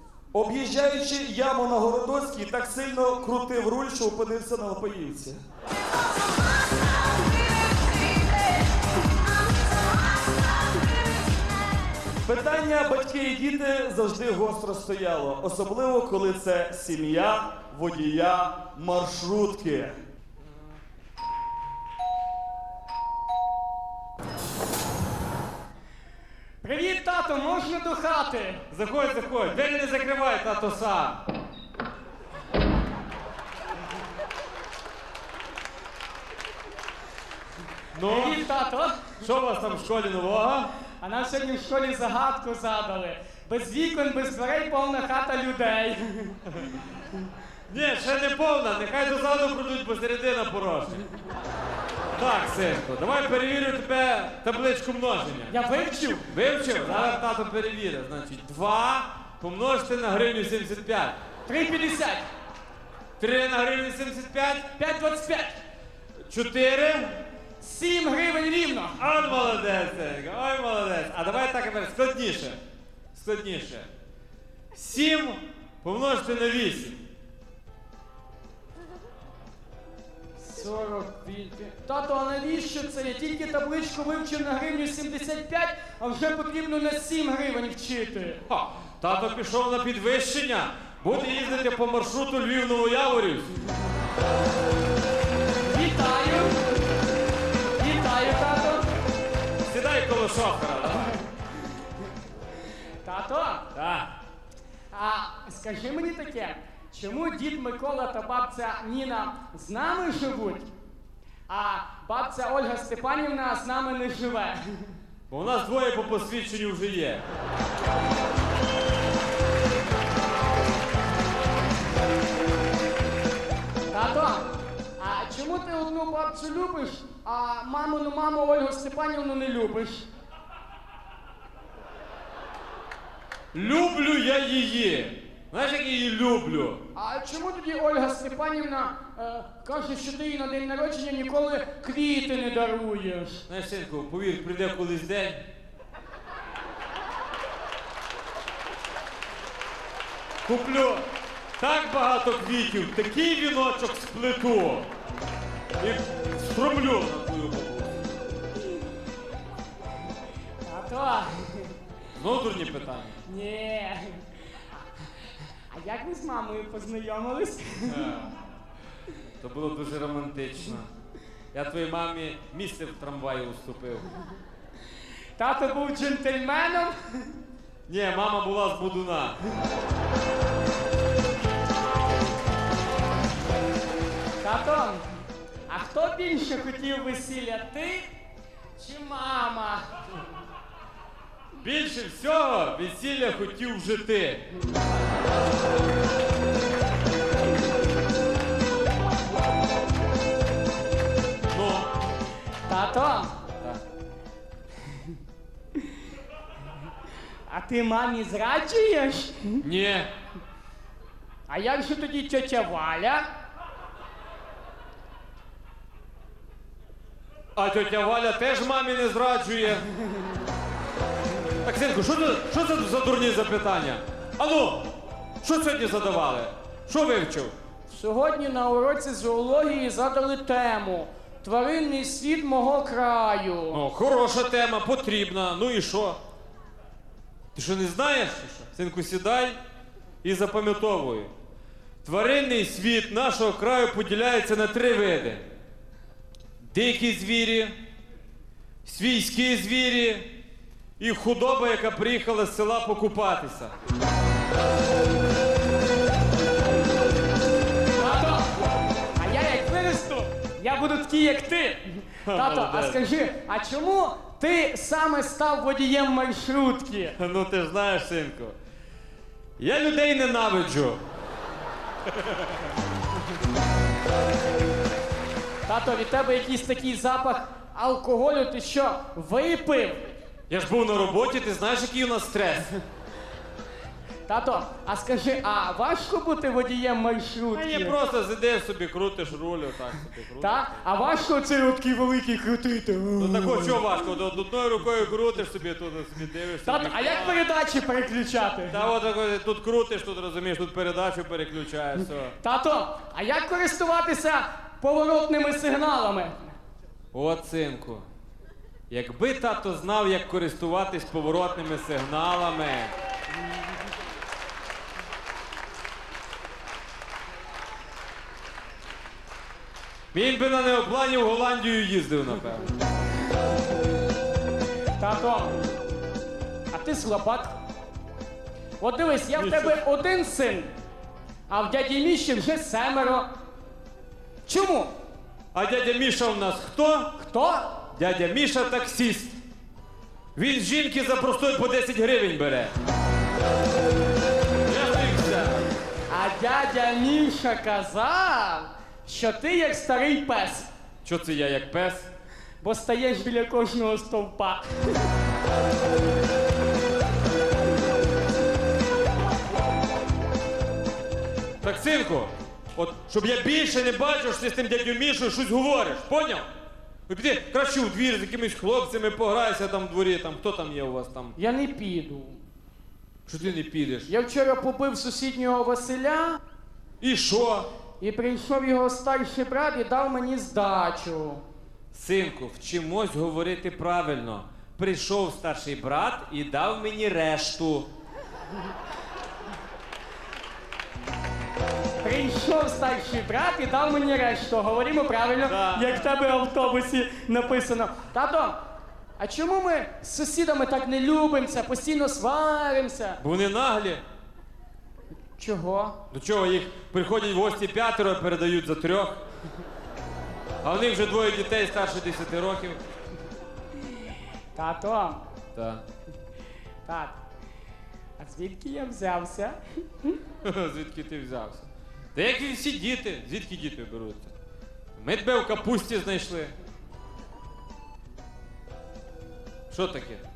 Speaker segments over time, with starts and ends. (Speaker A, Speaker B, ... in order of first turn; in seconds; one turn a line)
Speaker A: 0.3-5.4
Speaker A: 12.2-19.9
Speaker B: 26.6-28.6
Speaker C: 28.7-31.2
Speaker C: 37.9-38.5
Speaker B: 38.0-39.2
Speaker C: 39.2-40.7
Speaker B: 41.0-46.4
Speaker C: 47.7-51.1
Speaker C: 52.1-55.5
Speaker B: 55.5-56.3
Speaker C: 56.3-61.2
Speaker B: 61.5-62.2
Speaker C: 63.2-64.7
Speaker B: 64.7-65.6
Speaker C: 66.3-67.2
Speaker B: 67.6-69.0
Speaker C: 69.0-72.6
Speaker C: 73.1-73.9
Speaker C: 74.7-77.0
Speaker B: 80.4-88.4
Speaker C: 88.5-93.5
Speaker B: 95.6-96.6
Speaker B: 97.8-98.8
Speaker C: 99.6-101.2
Speaker B: 103.0-103.6
Speaker C: 103.7-104.1
Speaker B: 104.9-110.7
Speaker B: 111.5-114.9
Speaker C: 115.3-117.2
Speaker B: 123.9-124.5
Speaker B: 125.0-130.1
Speaker C: 133.5-136.8
Speaker B: 136.9-143.4
Speaker C: 143.5-145.4
Speaker C: 150.4-151.0
Speaker C: 151.6-154.9
Speaker C: 155.8-157.9
Speaker B: 160.6-161.7
Speaker C: 162.1-163.2
Speaker B: 163.2-165.1
Speaker B: 165.7-168.1
Speaker C: 167.8-168.3
Speaker C: 169.4-170.9
Speaker C: 171.5-174.1
Speaker B: 175.3-177.4
Speaker C: 177.9-179.4
Speaker B: 184.4-185.0
Speaker B: 185.7-188.1
Speaker B: 188.8-189.8
Speaker C: 191.6-194.4
Speaker C: 201.5-201.9
Speaker B: 202.7-203.3
Speaker B: 207.5-209.6
Speaker C: 209.6-210.1
Speaker B: 211.5-213.2
Speaker C: 217.5-219.9
Speaker C: 221.6-224.9
Speaker C: 225.4-227.5
Speaker B: 227.9-233.8
Speaker C: 233.7-236.2
Speaker C: 237.5-239.6
Speaker C: 240.2-241.3
Speaker C: 242.0-245.4
Speaker C: 246.6-247.8
Speaker C: 248.8-250.3
Speaker C: 251.0-253.7
Speaker B: 258.0-258.5
Speaker B: 259.2-267.1
Speaker C: 262.2-263.0
Speaker C: 267.2-268.6
Speaker C: 269.6-271.0
Speaker B: 275.6-280.1
Speaker C: 280.5-282.7
Speaker B: 284.3-288.0
Speaker C: 287.5-290.8
Speaker B: 290.4-293.8
Speaker C: 293.2-297.4
Speaker B: 296.6-298.8
Speaker C: 298.7-302.4
Speaker B: 302.4-306.6
Speaker C: 307.1-308.1
Speaker C: 308.9-312.9
Speaker C: 320.1-322.7
Speaker B: 325.0-325.6
Speaker B: 326.7-327.5
Speaker B: 328.8-330.7
Speaker C: 329.4-329.8
Speaker B: 331.5-333.2
Speaker B: 334.4-334.9
Speaker C: 335.5-337.1
Speaker B: 337.2-337.7
Speaker C: 337.9-339.4
Speaker C: 340.3-342.7
Speaker C: 344.7-345.7
Speaker B: 346.1-350.7
Speaker C: 351.0-352.1
Speaker B: 352.6-355.0
Speaker C: 361.6-366.5
Speaker C: 367.1-371.3
Speaker B: 371.4-372.4
Speaker C: 373.3-374.1
Speaker B: 374.1-376.4
Speaker C: 377.0-377.7
Speaker B: 378.0-381.4
Speaker C: 381.9-387.9
Speaker B: 392.0-398.6
Speaker C: 395.4-396.0
Speaker B: 399.2-403.2
Speaker C: 403.2-404.0
Speaker B: 405.4-406.0
Speaker C: 406.1-409.2
Speaker C: 410.6-412.8
Speaker B: 414.5-415.2
Speaker C: 415.5-415.8
Speaker B: 416.8-417.2
Speaker B: 418.2-420.2
Speaker C: 420.4-424.3
Speaker C: 425.0-426.5
Speaker C: 429.7-430.2